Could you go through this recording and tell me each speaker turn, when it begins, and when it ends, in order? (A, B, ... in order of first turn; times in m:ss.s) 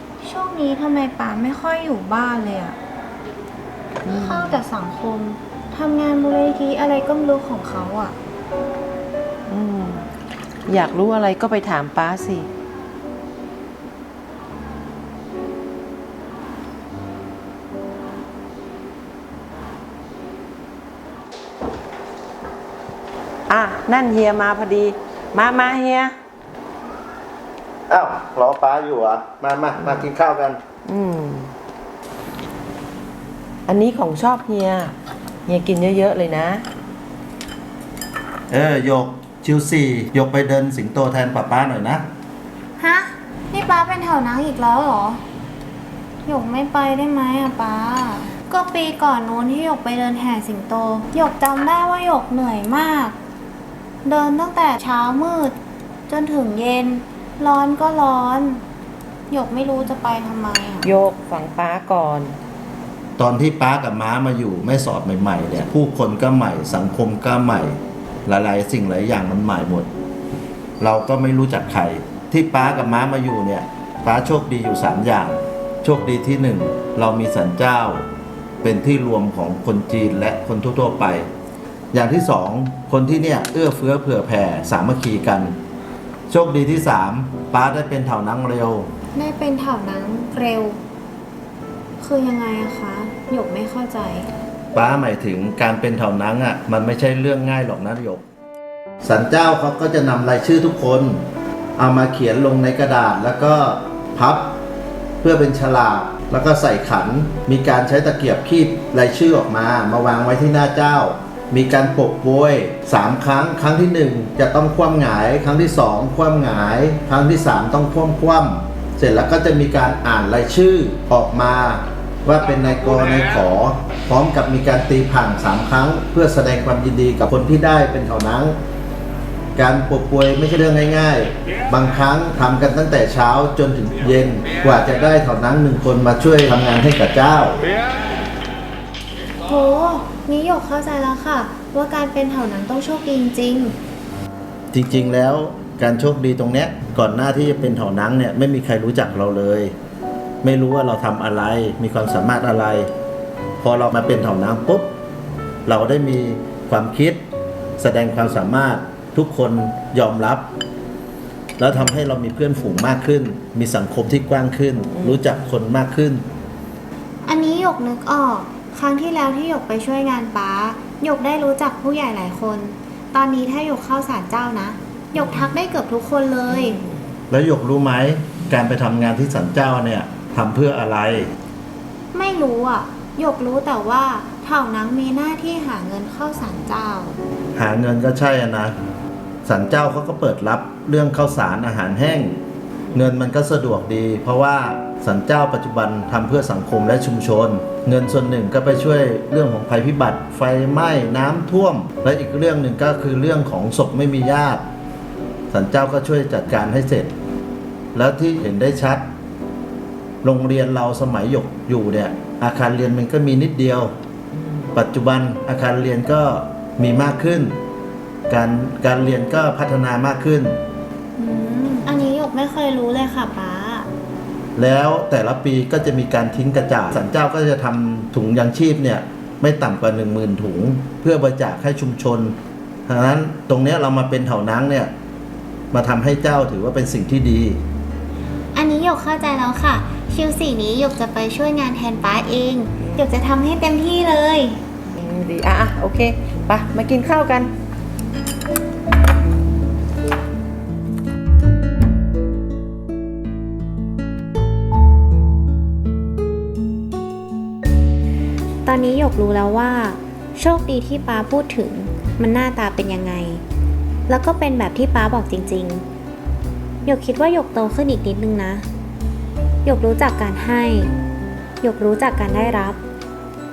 0:00.2-0:02.8 A
0:04.0-0:04.6 B
0:04.1-0:08.2 A
0:09.5-0:10.1 B
0:10.7-0:12.5 B
0:23.5-0:26.2 B
0:27.9-0:30.6 C
0:29.8-0:30.1 B
0:30.8-0:31.5 B
0:33.7-0:35.0 B
0:35.5-0:36.6 B
0:38.5-0:42.0 C
0:42.8-0:45.2 A
0:46.3-0:53.2 A
0:54.0-0:55.6 A
0:56.1-0:58.6 A
0:59.3-1:00.9 A
1:00.8-1:02.4 B
1:03.2-1:09.9 C
1:10.8-1:18.1 C
1:18.6-1:21.3 C
1:21.9-1:25.6 C
1:26.3-1:28.9 C
1:29.2-1:30.8 A
1:32.0-1:34.3 A
1:34.7-1:38.2 C
1:39.0-1:41.2 C
1:41.8-1:44.6 C
1:45.2-2:08.6 C
2:09.6-2:17.6 C
2:19.4-2:23.8 A
2:24.7-2:29.8 C
2:30.4-2:32.9 C
2:33.6-2:34.9 C
2:35.7-2:37.2 C
2:37.8-2:40.5 C
2:41.6-2:46.2 C
2:45.0-2:45.2 B
2:47.2-2:56.8 A
2:55.2-2:55.5 B
2:56.5-2:57.0 B
2:57.3-3:01.3 C
3:02.1-3:07.2 A
3:07.6-3:08.8 C
3:09.4-3:12.4 C
3:12.9-3:24.6 C
3:25.5-3:27.1 C
3:27.9-3:29.1 C
3:30.2-3:33.9 C
3:34.4-3:34.7 B
3:34.7-3:37.6 C
3:38.3-3:40.6 C
3:41.2-3:43.9 A
3:44.6-3:52.4 C
3:52.9-3:54.9 C
3:55.7-3:57.6 C
3:58.5-4:04.6 A
4:02.8-4:03.0 B
4:04.9-4:07.5 B
4:18.6-4:23.4 A
4:24.1-4:25.8 A
4:26.8-4:28.7 A
4:29.6-4:30.9 A
4:31.6-4:32.8 A